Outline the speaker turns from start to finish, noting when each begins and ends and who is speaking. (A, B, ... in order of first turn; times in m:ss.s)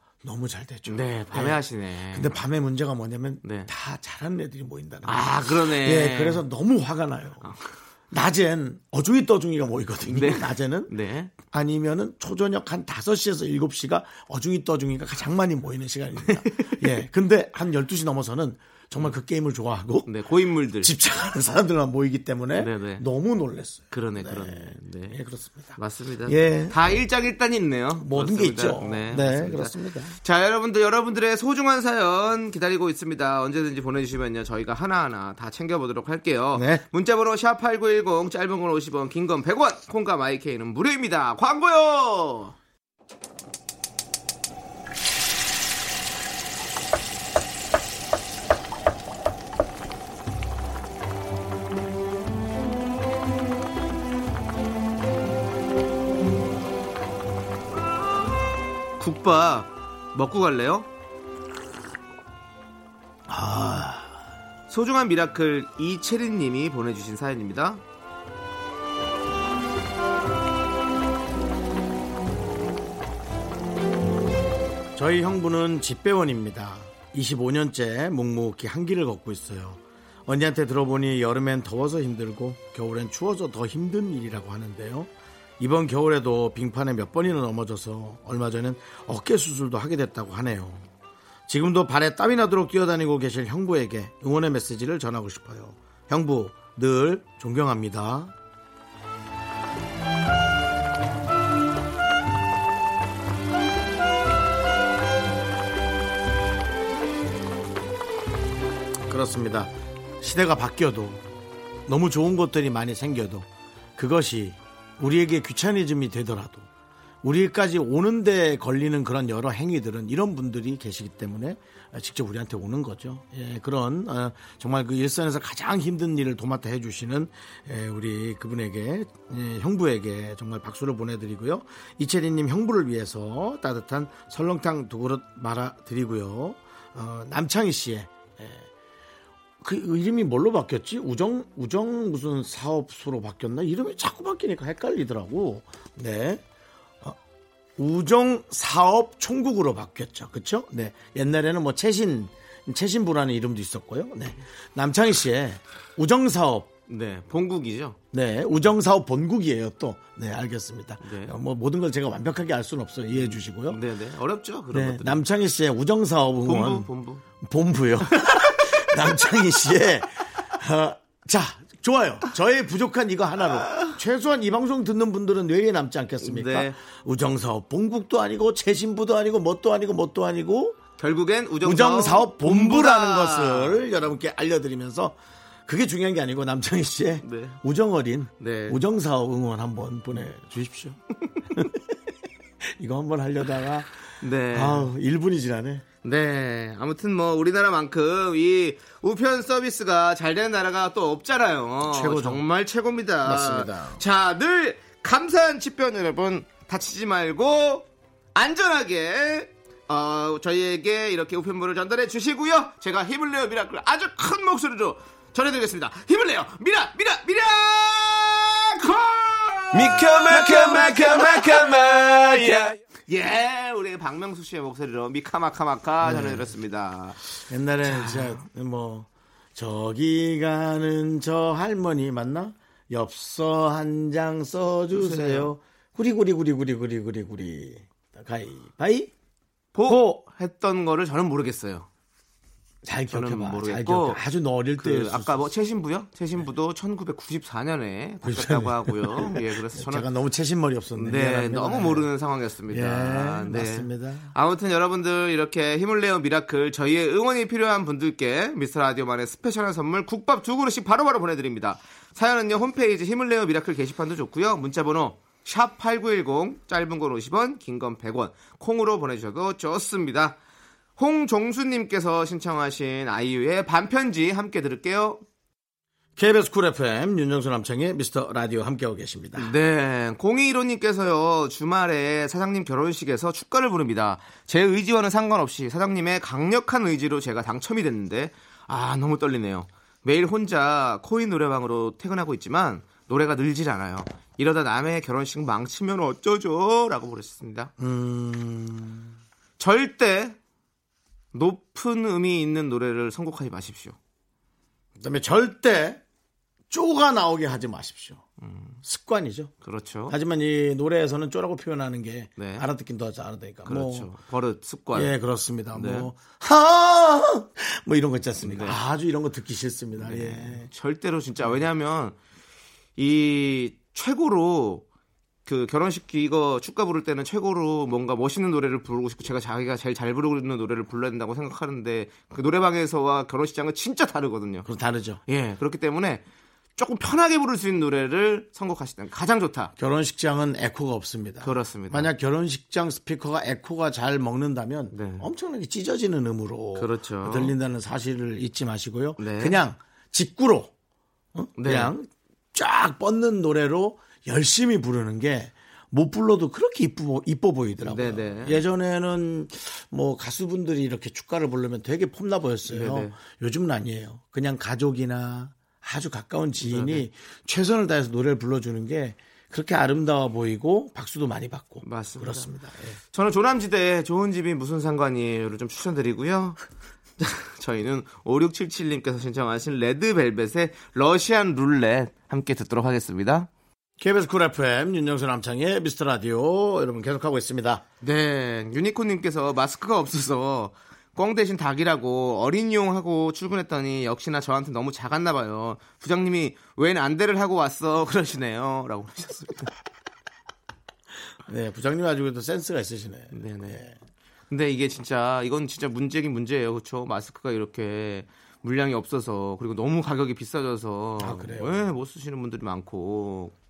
0:00.2-0:07.5 A
0:00.9-0:02.3 B
0:03.4-0:03.7 B
0:05.0-0:06.4 B
0:08.1-0:20.1 A
0:10.1-0:11.3 B
0:16.3-0:16.9 B
0:20.1-0:20.9 B
0:20.8-0:27.0 A
0:22.6-0:23.0 B
0:23.9-0:25.2 B
0:25.8-0:42.6 B
0:28.0-0:30.2 A
0:36.5-0:36.8 A
0:59.0-1:00.9 B
1:03.3-1:04.2 A
1:04.7-1:07.8 B
1:15.0-1:30.8 A
1:31.5-1:38.4 A
1:49.1-1:51.2 A
1:51.9-1:56.7 A
1:57.2-2:18.7 A
2:19.6-2:26.4 A
2:27.8-2:36.7 A
2:36.9-2:38.0 B
2:38.1-2:43.8 A
2:41.0-2:41.4 B
2:43.1-2:45.2 B
2:44.7-2:46.9 A
2:46.4-2:47.2 B
2:47.4-3:00.8 A
2:56.2-2:56.8 B
3:01.0-3:03.8 B
3:01.6-3:11.0 A
3:07.2-3:07.6 B
3:08.4-3:08.8 B
3:11.5-3:11.8 A
3:12.6-3:13.9 A
3:14.2-3:14.9 B
3:14.5-3:15.8 A
3:16.0-3:47.2 B
3:21.9-3:22.4 A
3:23.2-3:24.0 A
3:39.7-3:42.6 A
3:46.0-3:46.5 A
3:47.5-3:59.1 A
3:47.8-3:48.4 B
3:54.9-3:55.5 B
3:59.8-4:01.9 B
3:59.9-4:00.2 A
4:02.8-4:05.5 A
4:03.1-4:04.2 B
4:04.8-4:10.1 B
4:08.2-4:12.1 A
4:11.0-4:30.4 B
4:12.7-4:14.3 A
4:31.0-4:35.2 B
4:36.2-4:39.5 A
4:39.4-4:57.7 B
4:57.8-4:59.1 A
4:59.6-5:00.4 B
5:01.3-5:04.0 B
5:05.0-5:06.0 A
5:06.7-5:08.2 A
5:08.4-5:08.8 B
5:08.8-5:09.5 A
5:09.6-5:10.2 B
5:10.1-5:14.1 A
5:12.4-5:12.7 B
5:13.7-5:15.2 B
5:14.9-5:20.7 A
5:15.7-5:16.1 B
5:18.4-5:18.8 B
5:20.0-5:22.2 B
5:23.0-5:24.8 B
5:25.5-5:34.7 B
5:34.7-5:35.2 A
5:35.3-5:36.2 B
5:36.8-5:39.7 B
5:39.8-5:50.7 A
5:41.4-5:42.1 B
5:44.9-5:45.3 B
5:46.8-5:47.6 B
5:49.2-5:49.6 B
5:51.4-6:13.0 A
5:51.6-5:51.9 B
5:57.8-5:58.6 B
6:02.7-6:03.2 B
6:06.6-6:07.0 B
6:11.8-6:12.5 B
6:13.1-6:16.6 B
6:17.2-6:23.5 B
6:24.0-6:27.8 A
6:28.0-6:39.7 B
6:41.5-6:44.0 A
6:43.3-6:43.8 B
6:44.5-6:53.5 B
6:51.2-6:51.9 A